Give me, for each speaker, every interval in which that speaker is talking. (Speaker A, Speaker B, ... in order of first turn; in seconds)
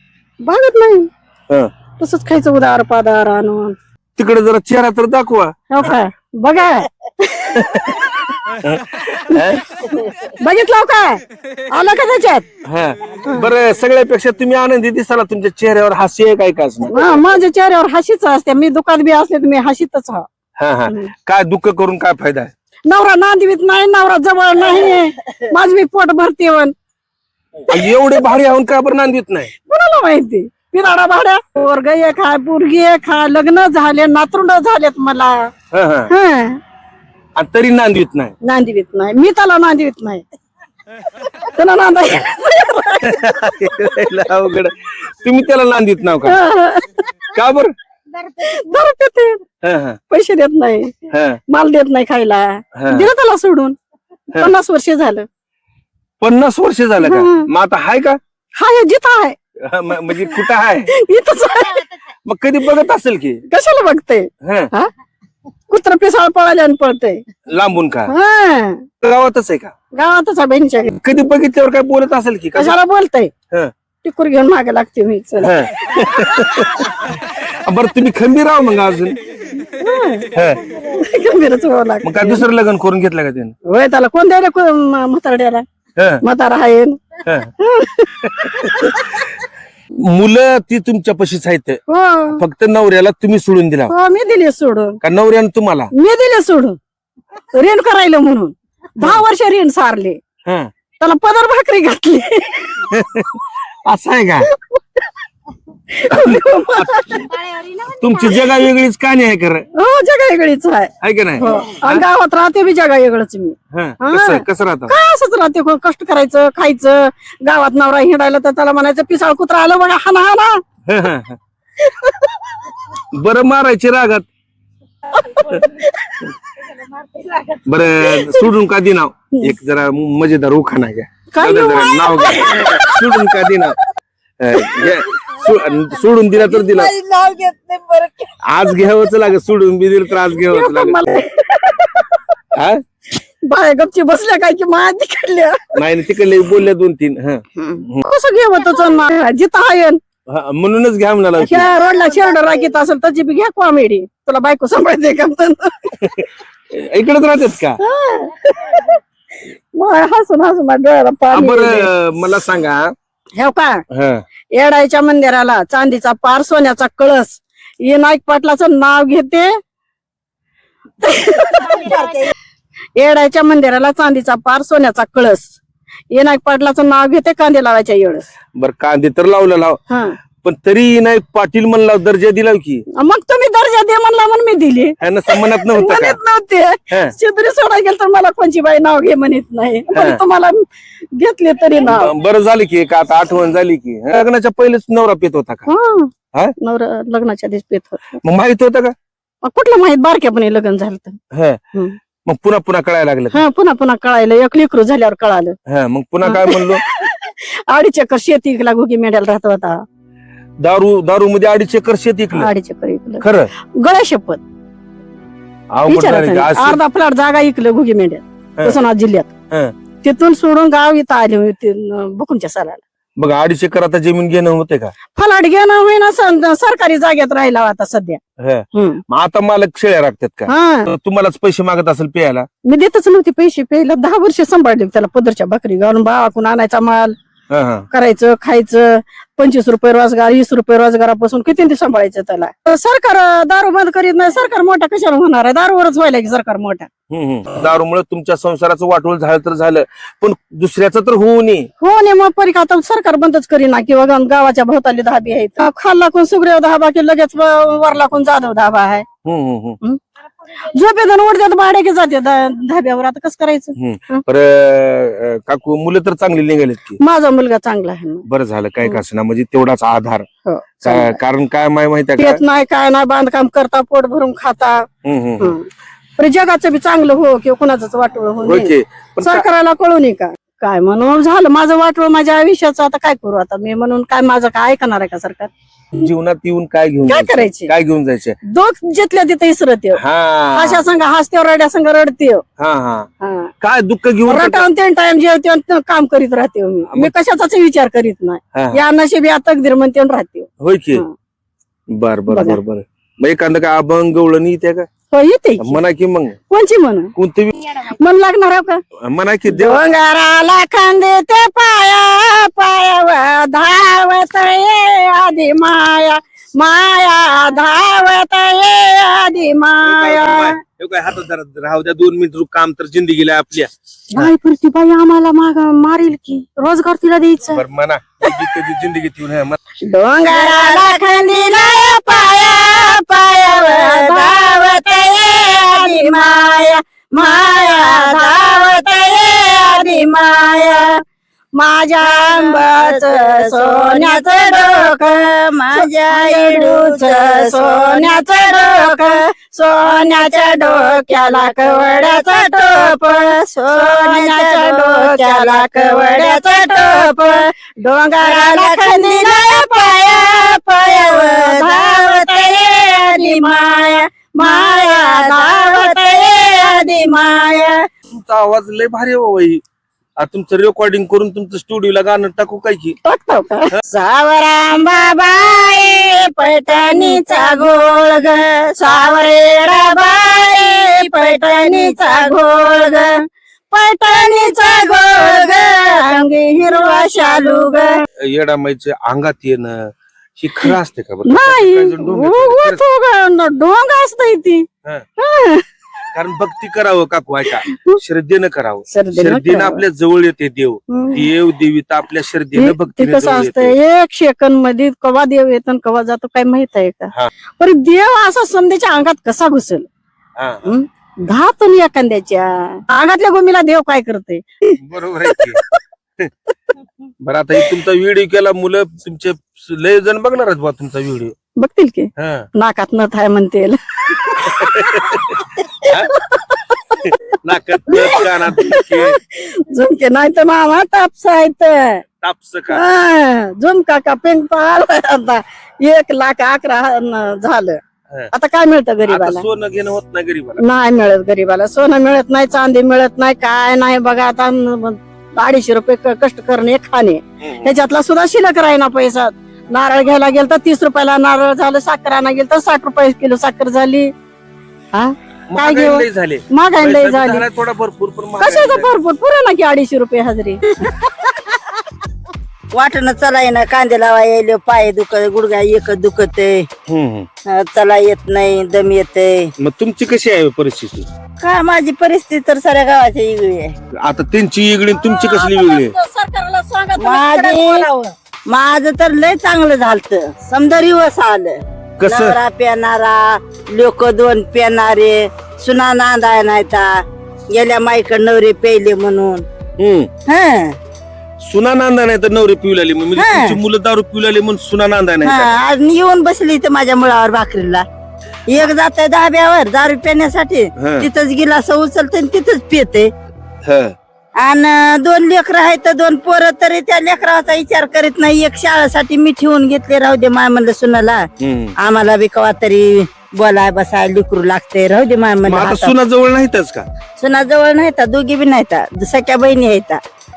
Speaker A: 0.4-1.1, 2.0-3.8, 5.7-8.2, 10.4-12.5, 16.9-20.3, 22.9-26.7, 29.7-35.5, 36.1-36.6, 38.4-40.2, 41.4-43.4, 46.2-47.1, 48.2-49.4, 50.1-53.8, 54.4-55.3, 57.0-57.5, 58.6-59.4, 60.0-61.9, 63.5-64.9, 65.7-67.2, 68.1-68.8, 69.9-70.9, 72.5-73.3, 74.0-75.6, 79.8-82.5, 83.7-85.6, 86.2-89.2, 91.9-92.4, 93.9-95.0, 96.0-96.8, 97.5-100.2, 101.0-102.9, 104.7-105.0, 105.9-108.5, 109.8-120.6, 121.8-122.7, 125.1-128.5, 131.3-133.6, 140.3-142.3, 143.4-145.7, 147.6-150.0, 151.4-155.9, 157.8-159.0, 159.7-161.9, 163.4-163.8, 164.6-169.5, 171.0-172.3, 173.0-175.6, 176.1-178.3, 179.9-180.2, 183.0-192.2, 195.7-198.2, 199.4-201.2, 203.3-205.6, 206.2-209.8, 212.3-213.2, 213.8-214.4, 215.9-219.3, 220.0-222.8, 225.2-228.2, 228.7-229.0, 230.5-230.9, 232.7-237.1, 237.9-246.9, 251.8-259.1, 260.6-264.2, 267.0-268.2, 270.5-271.2, 272.2-274.9, 275.4-275.7, 276.2-285.5, 287.1-287.7, 288.5-290.0, 290.5-292.4, 293.2-293.5, 294.3-301.1, 302.3-302.6, 305.1-305.8, 306.5-307.1, 307.8-308.8, 309.5-320.6, 324.1-327.6, 329.8-331.0, 331.7-340.0, 341.6-367.5, 373.1-373.7, 376.6-377.9, 378.8-383.2, 383.7-388.0, 391.2-394.7, 395.2-395.6, 397.6-398.0, 398.9-399.8, 400.9-401.3, 402.6-409.9, 410.6-415.8, 421.6-426.8, 427.9-432.0, 432.7-437.8, 438.3-439.5, 440.6-454.1, 454.9-457.5, 458.4-460.9, 474.9-478.1
Speaker B: 4.2-5.9, 7.5-9.9, 12.7-17.1, 20.6-22.5, 27.7-29.5, 35.7-36.1, 37.4-38.3, 43.0-46.4, 47.3-47.7, 49.6-50.0, 51.1-51.4, 52.8-53.1, 56.2-58.2, 59.6-60.9, 62.3-63.4, 64.4-64.7, 67.5-68.1, 69.0-69.7, 70.9-72.8, 75.4-77.0, 77.6-79.2, 80.3-80.6, 82.0-83.5, 86.0-86.2, 87.2-87.5, 88.2-89.1, 90.0-93.9, 95.0-95.9, 100.5-100.7, 102.9-104.5, 106.0-107.3, 107.9-109.7, 111.0-112.0, 113.7-115.0, 120.9-121.4, 123.1-124.3, 127.6-133.8, 134.4-136.9, 138.5-141.1, 142.5-142.8, 145.8-148.1, 150.3-151.7, 156.0-157.8, 161.3-162.9, 163.9-164.2, 178.6-179.8, 180.4-182.8, 185.0-186.2, 189.9-190.2, 191.8-195.7, 198.2-198.9, 201.3-201.6, 202.2-203.4, 205.7-206.8, 210.6-212.5, 213.2-213.5, 215.7-216.8, 223.2-224.9, 228.4-232.5, 237.5-237.9, 247.1-251.7, 259.2-259.8, 263.8-267.0, 268.3-270.3, 270.8-272.4, 275.1-275.6, 278.4-279.4, 285.9-288.4, 290.0-290.8, 292.6-293.1, 293.6-294.7, 298.5-298.8, 300.6-301.0, 301.9-304.9, 305.6-306.4, 307.1-307.8, 309.1-309.8, 319.8-324.3, 327.5-329.6, 368.1-369.6, 370.2-373.0, 388.2-392.8, 396.1-403.8, 410.4-410.7, 414.8-415.6, 417.2-421.3, 422.2-422.5, 424.4-426.2, 426.9-429.2, 432.2-432.8, 439.0-440.6, 447.4-447.7, 455.5-458.9, 466.9-467.3, 469.6-471.1, 474.0-475.9, 482.0-482.4, 489.8-490.1, 491.4-495.5, 500.8-501.1, 503.6-503.9, 511.4-511.8, 515.5-516.9
Speaker C: 9.8-10.3, 136.1-138.3, 171.6-172.3, 330.3-340.9, 342.0-349.2, 350.1-357.5, 358.2-367.7, 373.9-383.1, 384.1-386.1, 386.7-387.9, 460.8-461.4, 462.7-466.7, 467.5-469.5, 471.4-473.7, 477.0-477.9, 478.5-487.0, 487.5-489.4, 490.3-490.8, 493.2-493.6, 495.2-497.8, 498.5-503.1, 504.4-511.2, 511.8-516.0, 517.2-520.0